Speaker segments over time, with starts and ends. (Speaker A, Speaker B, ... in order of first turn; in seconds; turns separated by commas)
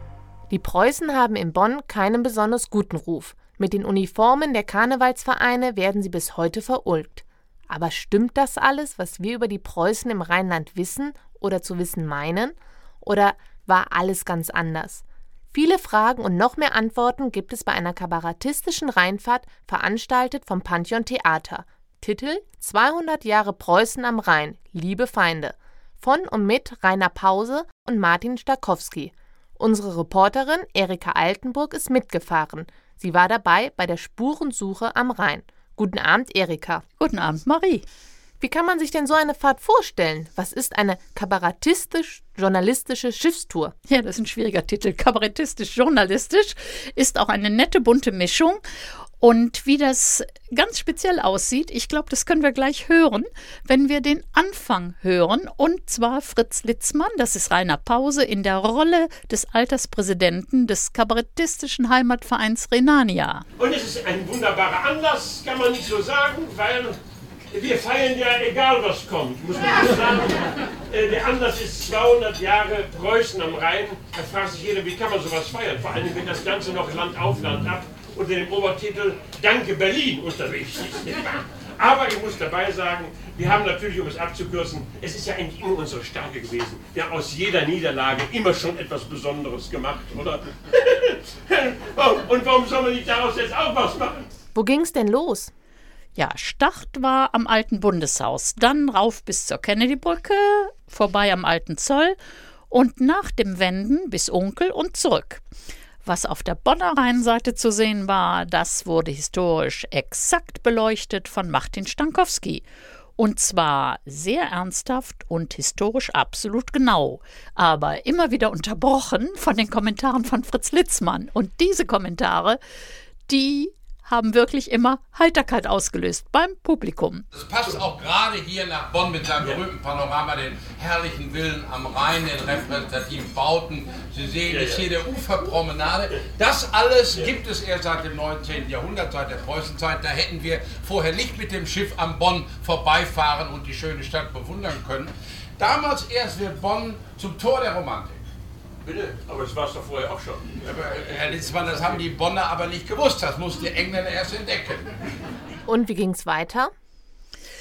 Speaker A: 0.5-36.8, Speaker B: 37.0-37.8, Speaker A: 38.4-43.7, Speaker B: 43.9-48.6, Speaker B: 49.2-63.5, Speaker C: 63.6-67.0, Speaker C: 67.5-94.3, Speaker A: 94.5-95.5, Speaker B: 96.2-102.2, Speaker B: 102.7-105.4, Speaker B: 106.0-112.6, Speaker B: 113.2-122.6, Speaker B: 123.3-127.2, Speaker D: 127.3-148.2, Speaker C: 134.5-134.9, Speaker C: 148.8-152.0, Speaker D: 150.6-154.9, Speaker A: 155.7-156.7